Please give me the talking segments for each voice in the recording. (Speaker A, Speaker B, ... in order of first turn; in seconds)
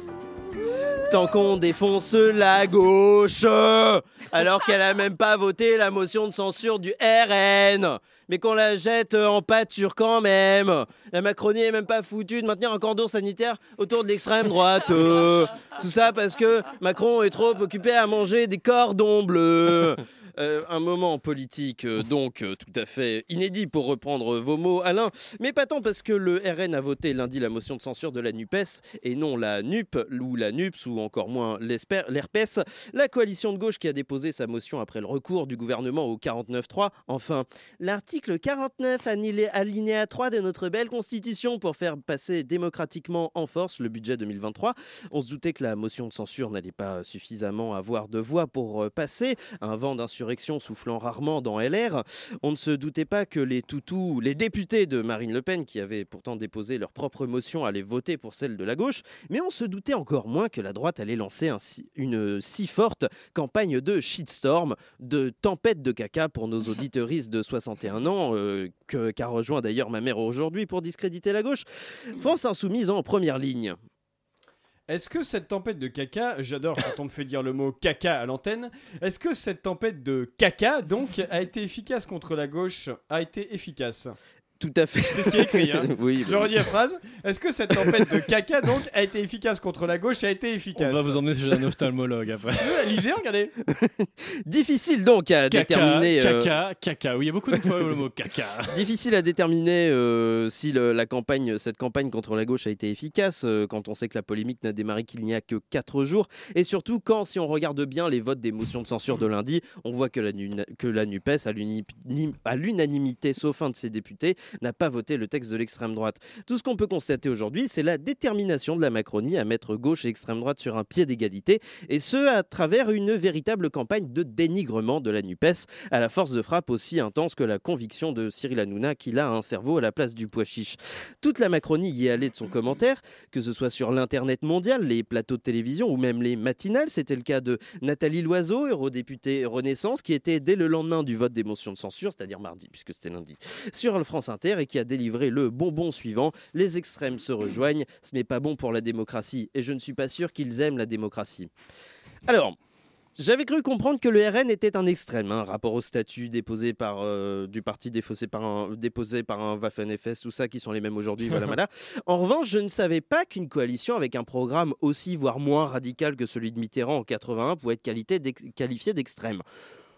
Speaker A: 1.0-73.8, 84.6-86.6, 93.7-96.5, 98.7-151.5, 152.3-152.6, 153.2-169.4
Speaker B: 74.9-84.2, 85.1-91.5, 92.6-93.5
Speaker C: 90.8-92.9, 95.5-98.8